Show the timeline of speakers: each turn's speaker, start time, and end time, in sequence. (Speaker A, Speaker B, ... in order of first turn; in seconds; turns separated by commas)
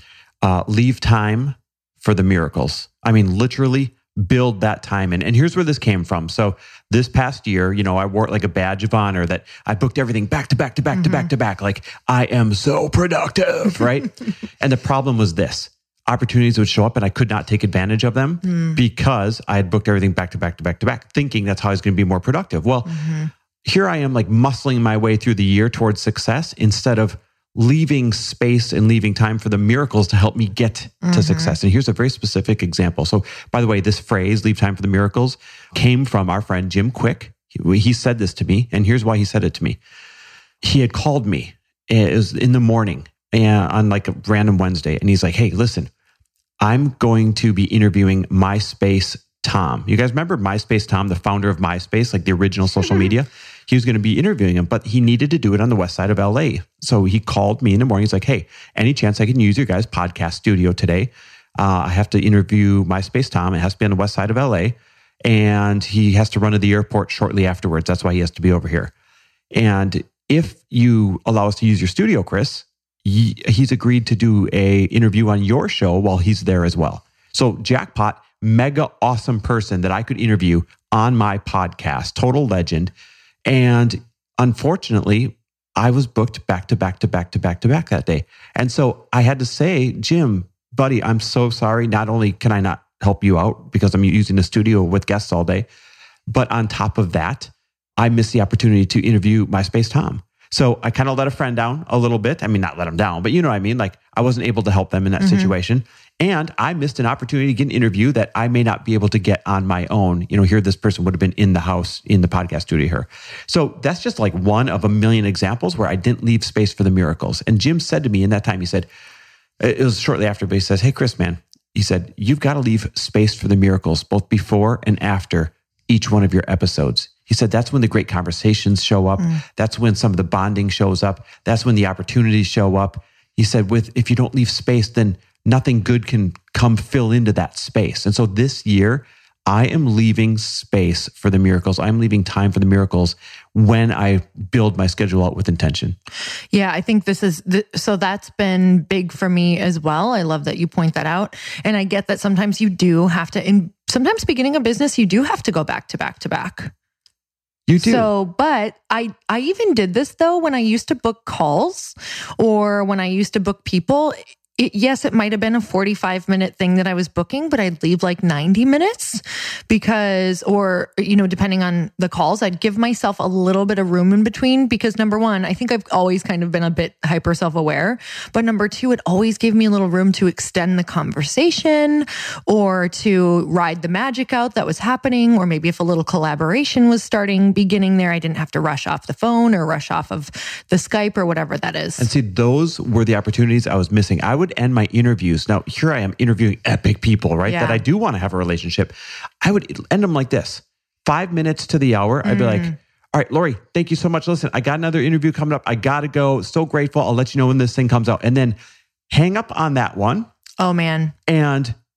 Speaker A: 0.4-23.0, Speaker B: 10.9-11.3, Speaker B: 18.4-18.8, Speaker B: 22.9-23.3, Speaker A: 23.6-39.8, Speaker B: 31.0-31.5, Speaker A: 40.6-45.9, Speaker A: 46.6-68.9, Speaker A: 69.5-82.9, Speaker A: 83.5-95.7, Speaker A: 96.3-118.9, Speaker B: 105.2-105.5, Speaker A: 119.6-146.0, Speaker B: 146.5-156.7, Speaker A: 157.7-158.1, Speaker B: 157.8-192.1, Speaker A: 192.0-208.6, Speaker B: 197.4-197.8, Speaker B: 202.2-202.7, Speaker A: 209.1-210.3, Speaker B: 210.6-211.1, Speaker A: 211.3-211.8